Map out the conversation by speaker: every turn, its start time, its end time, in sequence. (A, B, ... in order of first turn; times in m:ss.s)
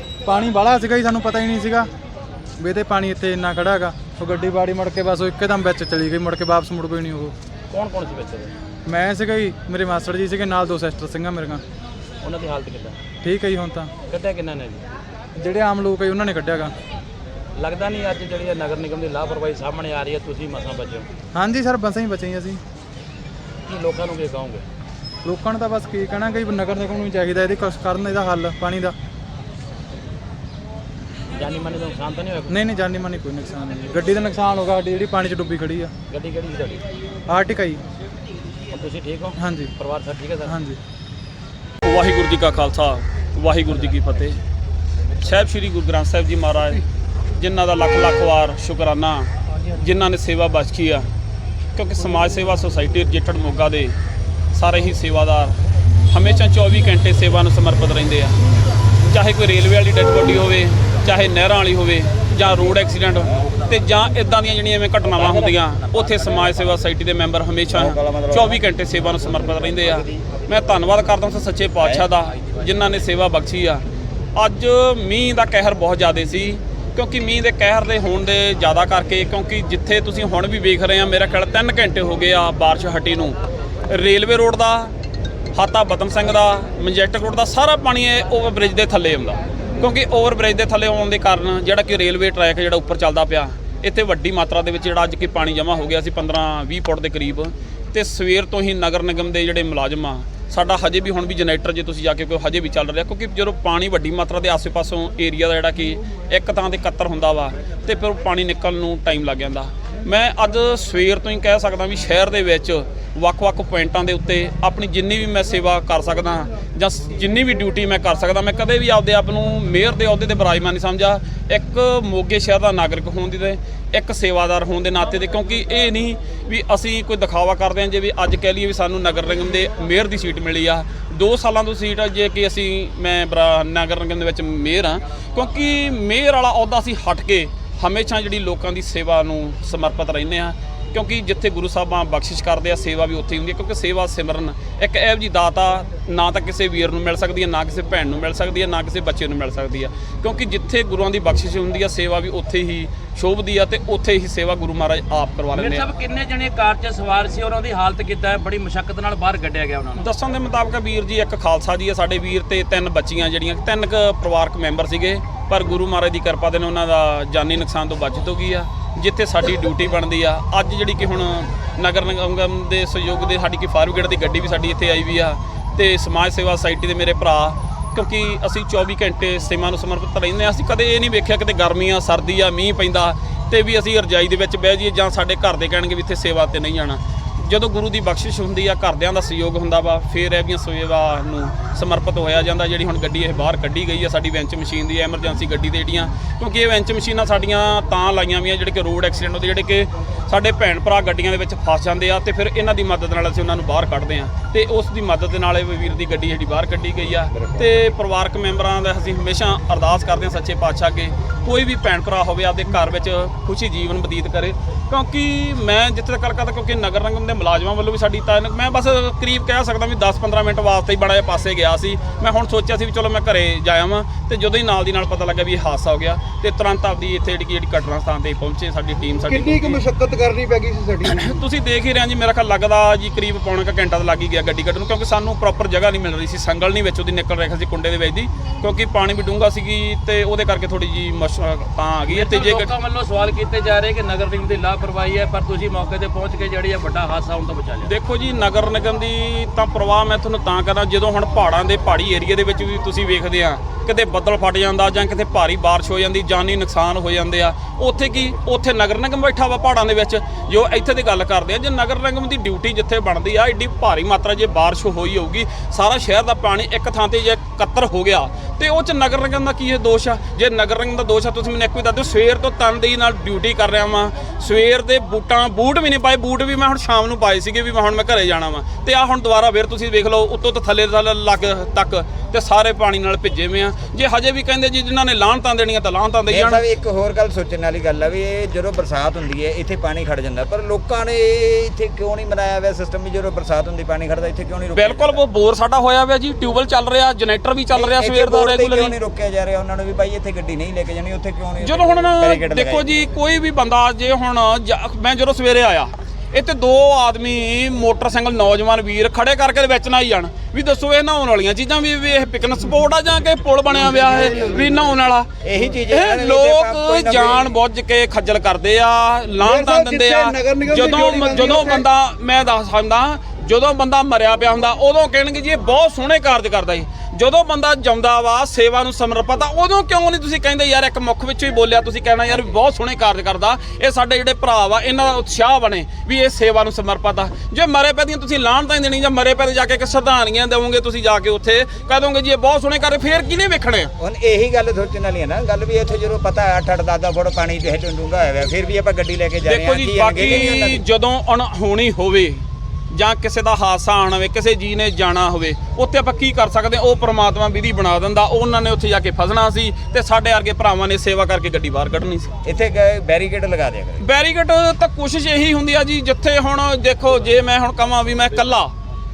0:00.2-0:01.9 A
0:02.6-0:07.3 A
0:07.7-0:08.5 B
0:08.8-0:11.6 A
0:12.2-0:13.0 B
0:13.2-0:13.9 A
0:14.1-0:14.8 B
0:15.4-0:16.7 A
0:17.6-0:21.1 B
0:21.3-0:22.6 A
0:23.6-0:24.6 B
0:25.2-0:29.0 A
0:31.3-0:32.6 B
0:32.5-0:35.9 A
0:36.1-0:36.8 B
0:37.3-0:37.8 A
0:38.7-0:40.6 B
0:39.4-0:39.7 A
0:40.4-0:40.8 A
0:41.8-0:44.4 C
0:45.2-0:46.8 C
0:47.4-0:51.1 C
0:51.8-0:54.0 C
0:54.5-0:55.6 C
0:56.1-0:58.4 C
0:59.0-1:13.8 C
1:07.7-1:08.6 D
1:14.4-1:24.9 C
1:25.5-2:35.9 C
2:35.5-2:40.1 B
2:40.0-3:49.8 C
3:49.3-3:51.2 E
3:51.0-4:02.7 C
4:02.1-4:07.9 B
4:07.8-4:46.7 C
4:46.3-4:55.2 D
4:54.7-4:59.0 C
4:57.7-5:02.9 D
5:01.6-5:15.3 C
5:14.2-5:14.6 D
5:15.4-5:17.5 D
5:15.9-5:43.9 C
5:19.4-5:21.8 E
5:44.0-5:50.8 D
5:49.4-6:02.3 C
6:02.4-6:04.0 D
6:04.0-6:08.7 C